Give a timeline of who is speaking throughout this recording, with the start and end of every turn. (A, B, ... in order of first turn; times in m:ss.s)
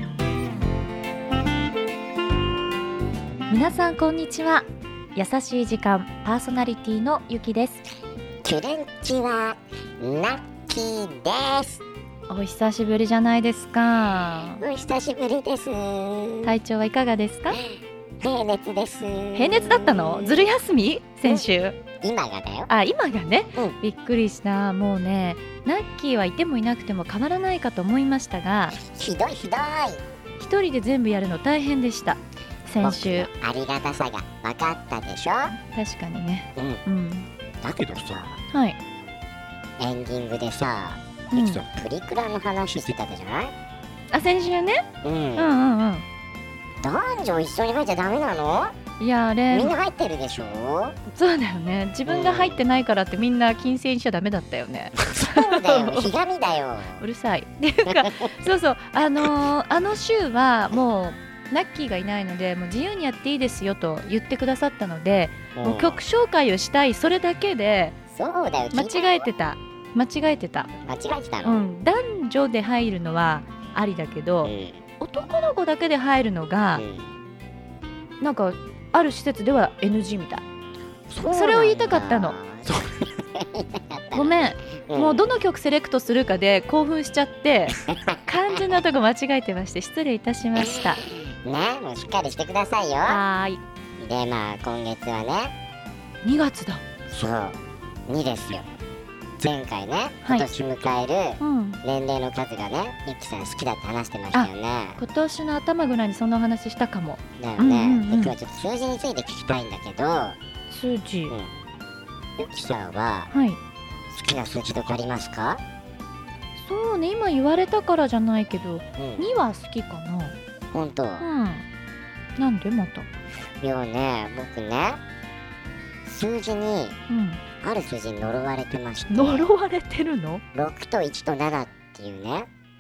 0:03.5-0:07.8 A
0:08.4-0:11.8 B
0:12.3-0:14.6 A
0:14.5-0:16.6 B
0:16.4-0:17.6 A
0:17.5-0:20.5 B
0:19.3-0:21.8 A
0:22.0-0:22.7 B
0:22.7-0:28.8 A
0:28.8-0:30.0 B
0:30.4-0:33.3 A
0:32.8-0:35.6 B
0:35.6-0:37.3 A
0:36.6-0:36.8 B
0:37.6-0:38.4 B
0:38.5-0:38.8 A
0:39.8-0:43.5 B
0:41.3-0:41.7 A
0:44.1-0:46.0 A
0:45.0-0:45.6 B
0:46.8-0:48.7 B
0:49.0-0:49.8 A
0:49.5-0:51.0 B
0:51.1-0:56.1 A
0:52.1-0:52.6 B
0:55.0-0:57.0 B
0:57.0-1:08.0 A
0:57.9-0:58.4 B
1:05.6-1:06.0 B
1:08.1-1:09.3 B
1:08.7-1:10.7 A
1:10.8-1:11.6 B
1:11.4-1:16.8 A
1:14.4-1:14.8 B
1:16.8-1:17.2 B
1:18.2-1:20.4 A
1:21.1-1:25.2 B
1:21.3-1:22.4 A
1:24.1-1:31.0 A
1:27.7-1:28.6 B
1:30.6-1:33.2 B
1:33.0-1:33.6 A
1:34.0-1:35.6 B
1:36.2-1:36.9 A
1:37.1-1:38.6 B
1:39.4-1:45.0 B
1:40.2-1:40.5 A
1:41.4-1:41.8 A
1:44.3-1:48.4 A
1:47.4-1:50.4 B
1:50.7-1:51.4 A
1:51.3-1:51.6 B
1:52.4-1:53.3 B
1:53.3-1:53.6 A
1:54.1-1:55.6 B
1:56.6-2:00.4 A
1:59.0-1:59.3 B
2:00.7-2:01.2 B
2:01.2-2:01.6 A
2:02.4-2:03.1 A
2:03.6-2:05.0 B
2:06.0-2:07.0 B
2:07.1-2:07.4 A
2:07.6-2:09.5 B
2:09.1-2:10.4 A
2:10.5-2:12.5 B